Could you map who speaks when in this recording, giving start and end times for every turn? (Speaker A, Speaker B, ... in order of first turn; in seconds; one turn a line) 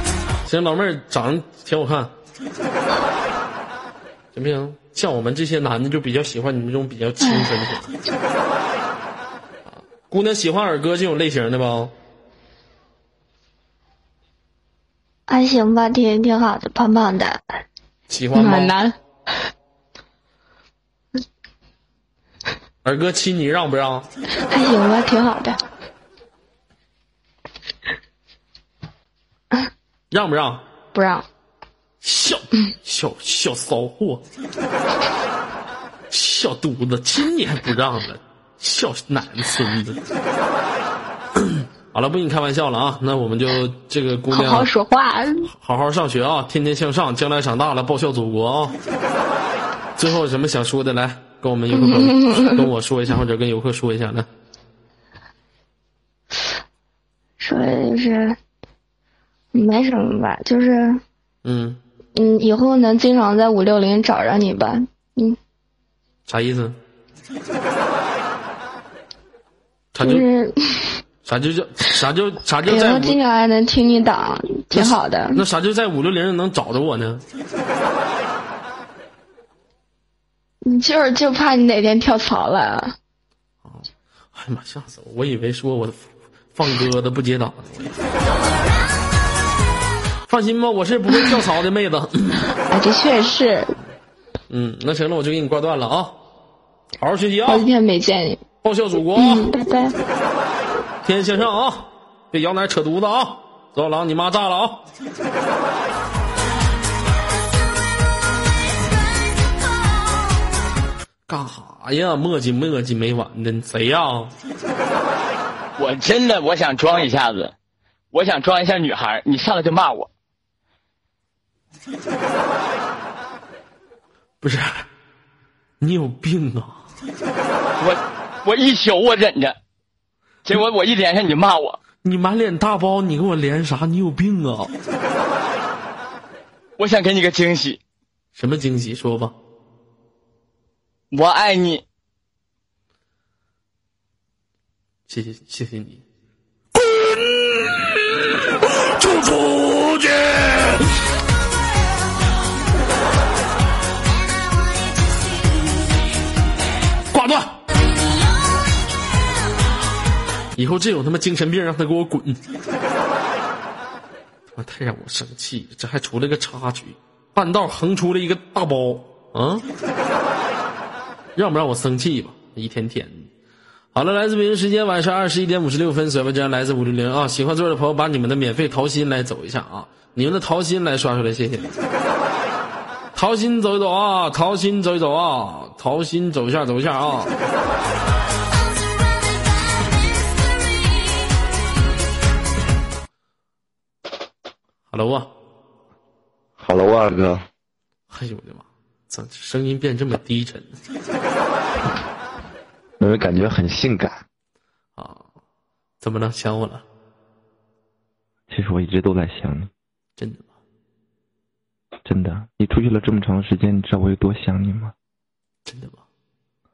Speaker A: 0.5-2.1
Speaker A: 4.3-8.0
Speaker A: 9.7-11.9
Speaker B: 15.3-17.4
Speaker A: 18.1-18.8
Speaker B: 18.3-19.0
Speaker A: 22.8-24.1
Speaker B: 24.5-25.6
Speaker A: 30.1-30.6
Speaker B: 30.9-31.3
Speaker A: 32.0-34.2
Speaker A: 36.1-40.0
Speaker A: 41.4-44.7
Speaker B: 44.3-45.5
Speaker A: 45.5-48.8
Speaker A: 50.0-54.3
Speaker B: 51.7-52.7
Speaker B: 57.4-58.4
Speaker B: 59.5-61.0
Speaker A: 61.5-61.8
Speaker B: 62.1-65.4
Speaker A: 66.3-66.8
Speaker A: 70.0-70.3
Speaker B: 70.0-71.0
Speaker A: 71.2-73.2
Speaker B: 72.7-75.4
Speaker A: 74.7-77.2
Speaker B: 80.6-83.0
Speaker A: 83.7-88.0
Speaker C: 88.8-89.5
Speaker A: 90.3-92.5
Speaker B: 92.7-93.8
Speaker A: 94.5-96.2
Speaker A: 97.0-97.7
Speaker B: 97.5-98.4
Speaker A: 98.6-99.5
Speaker B: 99.2-100.0
Speaker A: 101.0-104.9
Speaker C: 107.3-110.6
Speaker A: 111.3-114.3
Speaker D: 115.8-117.5
Speaker D: 118.1-120.1
Speaker A: 124.4-124.9
Speaker A: 125.8-126.8
Speaker D: 127.8-129.6
Speaker D: 130.5-131.8
Speaker A: 132.0-134.7
Speaker D: 136.8-137.8
Speaker A: 138.4-139.4
Speaker D: 141.1-141.8
Speaker A: 145.1-146.0
Speaker A: 146.8-150.9
Speaker C: 154.0-156.3
Speaker A: 157.1-157.6
Speaker C: 157.7-159.7
Speaker A: 160.6-162.4
Speaker A: 164.6-169.7
Speaker A: 171.4-173.2
Speaker A: 173.9-181.8
Speaker A: 183.2-187.4
Speaker C: 188.4-191.9
Speaker A: 194.9-195.3
Speaker E: 196.6-197.4
Speaker A: 198.1-200.8
Speaker E: 203.0-204.2
Speaker A: 205.0-205.2
Speaker A: 206.0-206.8
Speaker E: 208.5-209.7
Speaker A: 210.2-210.4
Speaker E: 212.1-214.9
Speaker A: 215.7-216.0